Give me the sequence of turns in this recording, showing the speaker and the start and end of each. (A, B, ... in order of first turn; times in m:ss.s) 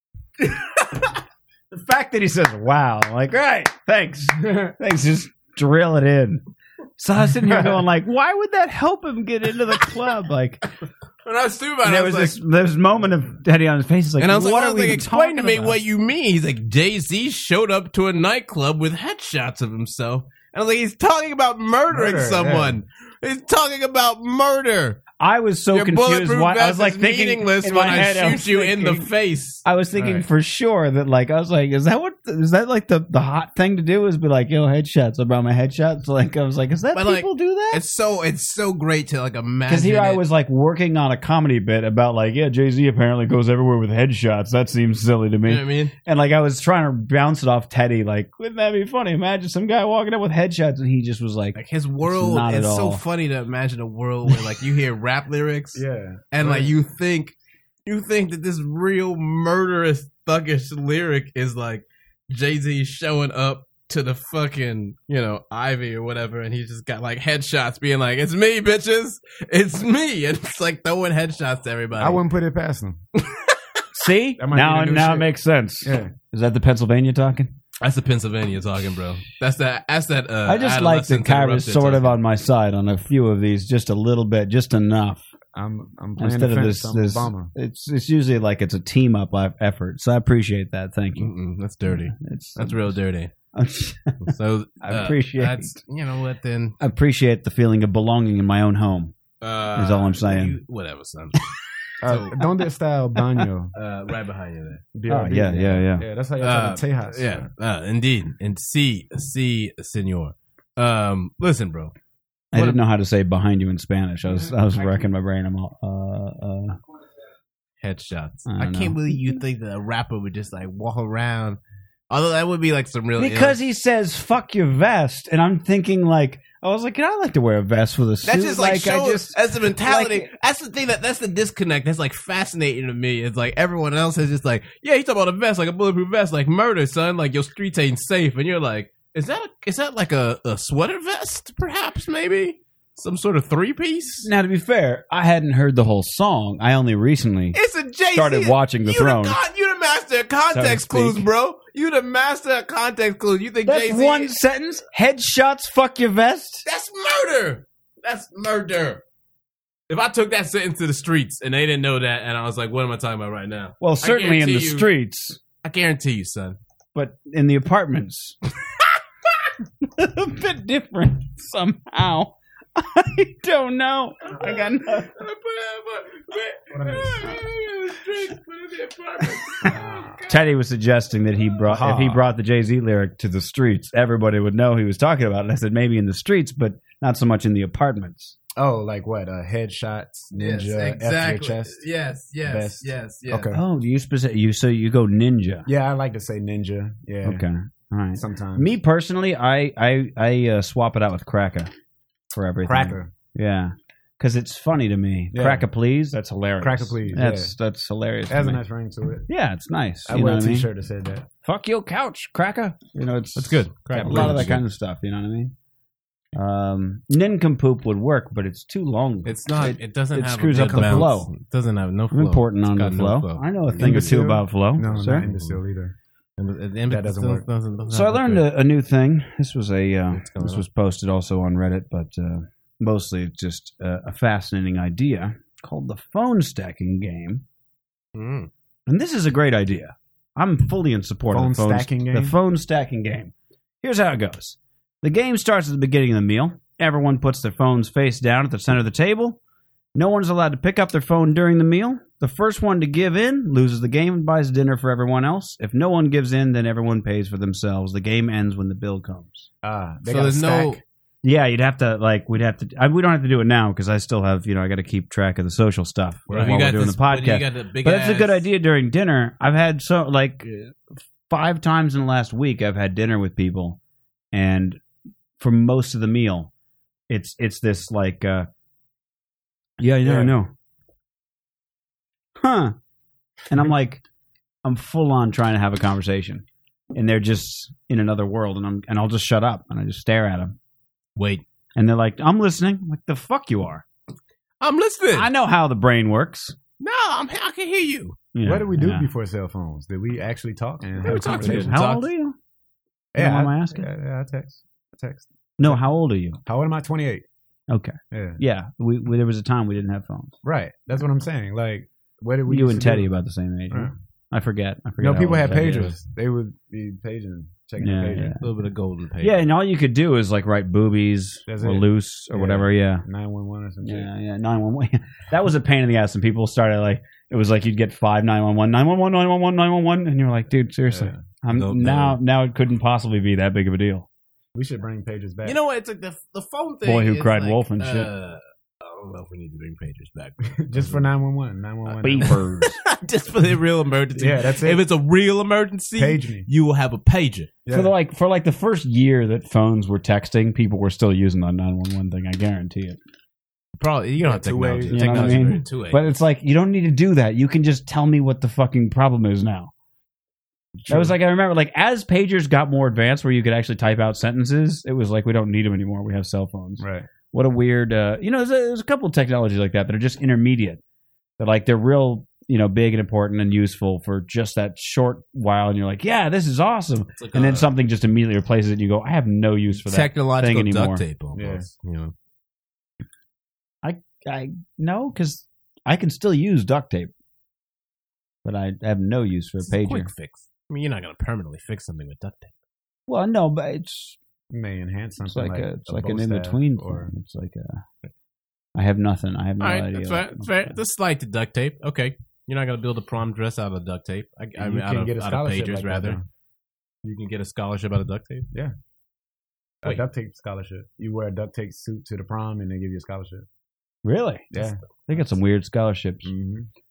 0:00.4-0:00.8 A
0:01.7-0:06.4 A
0:07.0-0:10.6 A
0:11.2-0:12.4 B
0:11.8-0:15.8 A
0:14.2-0:25.0 B
0:21.9-0:22.8 C
0:25.2-0:29.1 A
0:25.7-0:30.2 B
0:29.6-0:37.8 A
0:36.9-0:40.2 B
0:39.7-0:53.0 A
0:45.4-0:45.9 B
0:51.6-0:57.3 B
0:55.7-0:56.7 C
0:57.8-1:12.2 B
1:12.0-1:13.0 C
1:13.2-1:13.6 B
1:13.9-1:17.5 A
1:14.4-1:15.3 C
1:15.8-1:16.1 C
1:17.8-1:22.2 B
1:20.4-1:25.3 A
1:25.6-1:27.5 C
1:26.2-1:31.3 A
1:31.2-1:33.3 B
1:31.9-1:33.0 A
1:33.5-1:35.8 A
1:34.2-1:36.8 B
1:36.8-1:39.1 A
1:39.4-1:42.4 B
1:39.7-1:40.6 A
1:42.0-1:43.7 C
1:43.7-1:44.8 B
1:44.9-1:47.5 C
1:45.1-1:46.0 A
1:46.4-1:51.9 B
1:52.5-1:56.8 A
1:52.5-1:52.8 B
1:57.8-2:01.6 B
1:58.4-1:59.4 A
2:02.1-2:03.6 B
2:03.2-2:10.3 A
2:08.2-2:24.3 B
2:24.2-2:27.6 A
2:27.5-2:34.4 B
2:28.1-2:29.4 A
2:30.5-2:31.3 A
2:33.6-2:36.6 A
2:36.6-2:39.0 B
2:39.9-2:44.9 B
2:43.8-2:45.4 A
2:45.6-2:46.6 B
2:47.0-2:48.4 A
2:49.8-2:55.1 A
2:54.5-3:00.4 B
2:56.7-2:57.4 C
2:59.6-3:00.2 C
3:00.3-3:08.4 A
3:01.7-3:02.2 C
3:08.6-3:11.8 C
3:10.4-3:13.5 B
3:12.4-3:13.6 C
3:13.5-3:15.7 A
3:15.7-3:17.4 C
3:17.2-3:21.7 A
3:18.2-3:18.7 C
3:22.3-3:28.6 A
3:22.6-3:23.1 C
3:25.3-3:25.6 C
3:26.6-3:27.5 C
3:28.3-3:29.3 C
3:29.3-3:30.7 A
3:30.1-3:31.3 C
3:31.4-3:35.5 A
3:33.4-3:34.6 B
3:33.9-3:34.4 C
3:36.3-3:41.3 A
3:39.2-3:44.2 B
3:40.7-3:41.0 C
3:42.1-3:45.3 A
3:43.8-3:46.0 C
3:45.1-3:45.6 B
3:46.4-3:48.5 B
3:46.9-3:47.4 C
3:47.9-3:57.4 A
3:50.1-3:50.6 B
3:58.1-3:58.5 B
3:58.9-4:09.4 A
4:01.3-4:02.4 C
4:10.0-4:19.5 A
4:19.6-4:20.8 C
4:20.1-4:20.8 B
4:21.2-4:33.8 A
4:26.3-4:28.5 B
4:34.3-4:34.8 A
4:35.4-4:36.5 A
4:37.1-4:38.5 A
4:39.8-4:40.5 A
4:40.0-4:40.4 C
4:42.4-4:42.8 A
4:43.5-4:44.0 A
4:44.6-4:50.6 A
4:51.2-4:51.4 B
4:51.8-4:53.8 A
4:54.6-4:55.3 B
4:55.1-4:56.6 A
4:56.8-4:58.2 B
4:58.3-4:59.1 A
4:58.4-5:01.7 C
5:01.0-5:02.1 B
5:01.0-5:02.4 A
5:03.1-5:03.9 A
5:03.1-5:05.8 C
5:05.6-5:06.4 A
5:06.4-5:07.2 C
5:07.7-5:10.3 A
5:08.1-5:08.4 C
5:10.4-5:13.1 C
5:12.4-5:16.0 A
5:15.0-5:18.4 C
5:17.8-5:18.4 A
5:18.4-5:19.4 B
5:19.2-5:23.1 A
5:21.5-5:24.1 C
5:23.8-5:34.1 A
5:31.5-5:32.2 B
5:34.6-5:35.6 C
5:35.4-5:41.1 B
5:36.8-5:38.1 A
5:40.6-5:42.4 C
5:41.9-5:42.8 A
5:42.2-5:47.5 B
5:44.2-5:44.8 C
5:46.0-5:46.5 C
5:47.7-5:47.9 C
5:47.7-5:53.0 A
5:53.8-5:56.0 B
5:54.3-5:55.6 C
5:54.9-5:59.7 A
6:00.8-6:01.1 C
6:00.9-6:10.8 A
6:06.8-6:07.1 C
6:11.4-6:21.0 A
6:17.2-6:17.7 B
6:19.8-6:22.1 B
6:21.4-6:21.7 C
6:23.8-6:27.1 A
6:28.4-6:30.1 A
6:29.6-6:32.5 B
6:33.1-6:34.2 A
6:34.5-6:37.1 C
6:35.2-6:37.8 A
6:38.7-6:40.7 A
6:39.6-6:46.2 B
6:44.6-6:46.2 C
6:47.0-6:48.5 B
6:49.8-6:53.4 C
6:54.0-6:54.5 A
6:54.5-6:54.8 C
6:55.1-6:56.3 A
6:56.2-6:56.7 C